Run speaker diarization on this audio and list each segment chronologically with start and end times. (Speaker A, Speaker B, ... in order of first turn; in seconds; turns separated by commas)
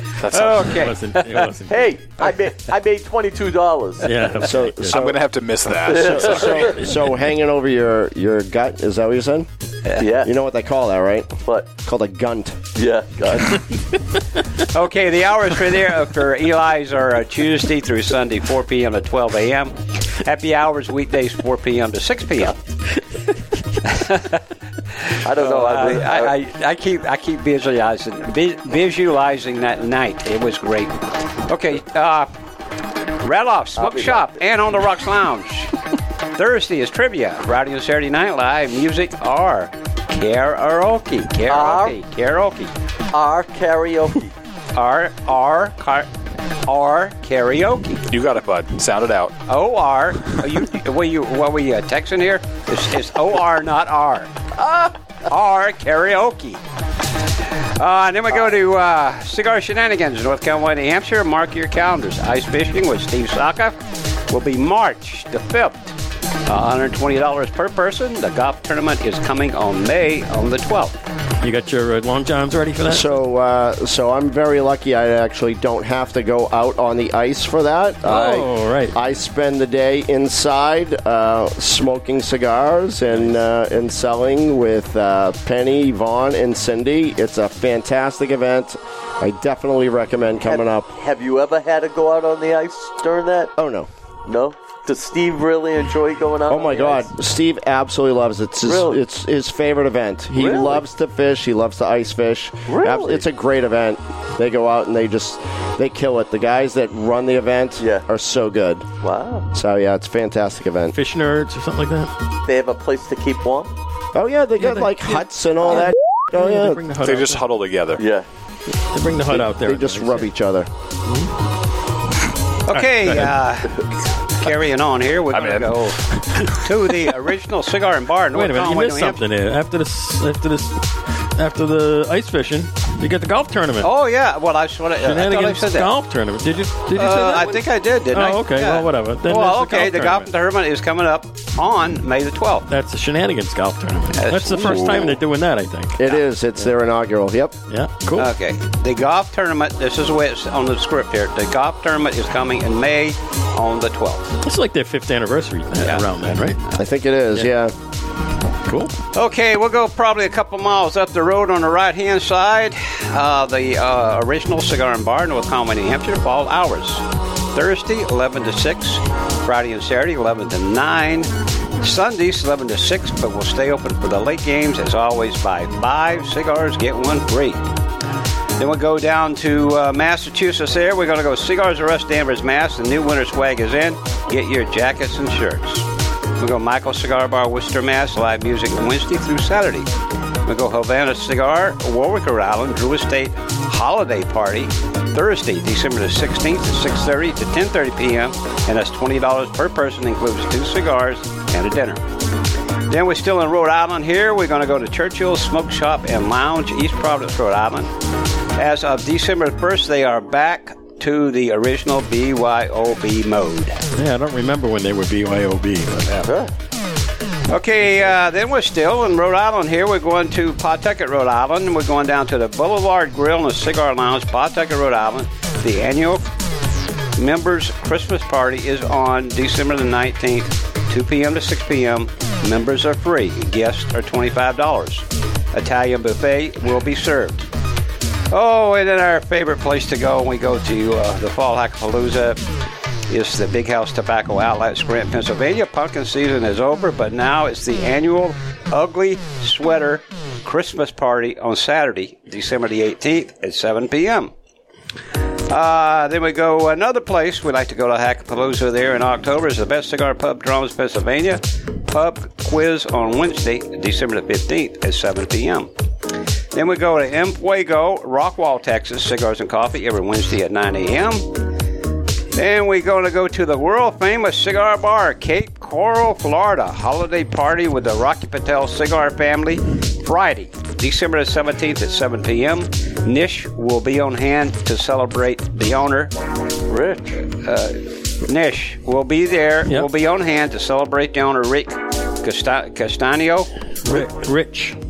Speaker A: 0.2-0.8, Speaker B: 0.3-1.5, Speaker C: 0.6-1.9, Speaker D: 1.7-4.5, Speaker C: 4.0-5.0, Speaker E: 4.4-5.3, Speaker A: 4.9-6.7, Speaker E: 5.8-9.5, Speaker D: 5.8-6.8, Speaker D: 10.0-10.3, Speaker E: 10.2-12.6, Speaker D: 12.8-13.8, Speaker B: 14.6-22.6, Speaker B: 23.8-32.3, Speaker D: 25.2-26.3, Speaker B: 33.2-35.8, Speaker D: 33.8-34.4, Speaker B: 36.4-42.7, Speaker D: 41.5-42.0, Speaker D: 43.1-44.3, Speaker B: 44.7-46.1, Speaker B: 46.7-48.1, Speaker A: 48.1-49.4, Speaker B: 49.5-54.3, Speaker D: 54.6-54.9, Speaker B: 55.3-56.6, Speaker B: 57.8-71.0, Speaker C: 71.4-73.2, Speaker E: 72.9-91.0, Speaker C: 78.1-79.0, Speaker D: 90.5-93.5, Speaker E: 93.6-93.9, Speaker D: 94.3-97.1, Speaker E: 96.5-108.9, Speaker D: 98.6-99.0, Speaker D: 100.3-100.8, Speaker D: 102.7-103.2, Speaker D: 107.8-108.0, Speaker D: 109.0-109.5, Speaker E: 109.5-111.0, Speaker C: 110.9-112.1, Speaker D: 112.5-113.7, Speaker E: 114.1-116.8, Speaker C: 114.6-117.4, Speaker A: 117.0-118.0, Speaker D: 118.0-118.3, Speaker C: 118.9-120.3, Speaker E: 119.3-120.7, Speaker C: 121.1-121.3, Speaker B: 122.7-129.2, Speaker C: 122.7-123.3, Speaker A: 125.3-126.6, Speaker C: 128.3-133.9, Speaker B: 133.8-135.9, Speaker C: 135.0-140.3, Speaker B: 136.9-142.7, Speaker C: 142.7-146.0, Speaker B: 144.1-145.2, Speaker E: 146.0-147.6, Speaker C: 147.7-148.3, Speaker B: 148.2-154.4, Speaker C: 154.4-156.6, Speaker B: 155.8-156.1, Speaker E: 156.8-157.7, Speaker C: 158.7-159.0, Speaker B: 159.1-177.7, Speaker B: 178.6-189.9, Speaker B: 190.5-202.1, Speaker B: 202.9-207.9, Speaker B: 208.6-213.8, Speaker C: 213.9-216.1, Speaker D: 216.2-216.5, Speaker B: 217.5-226.3, Speaker B: 227.2-237.5, Speaker B: 238.3-242.4, Speaker B: 243.1-254.3, Speaker B: 255.5-265.7, Speaker B: 266.5-271.5, Speaker B: 272.3-286.1, Speaker D: 286.7-287.3, Speaker B: 287.3-294.0, Speaker C: 293.8-294.8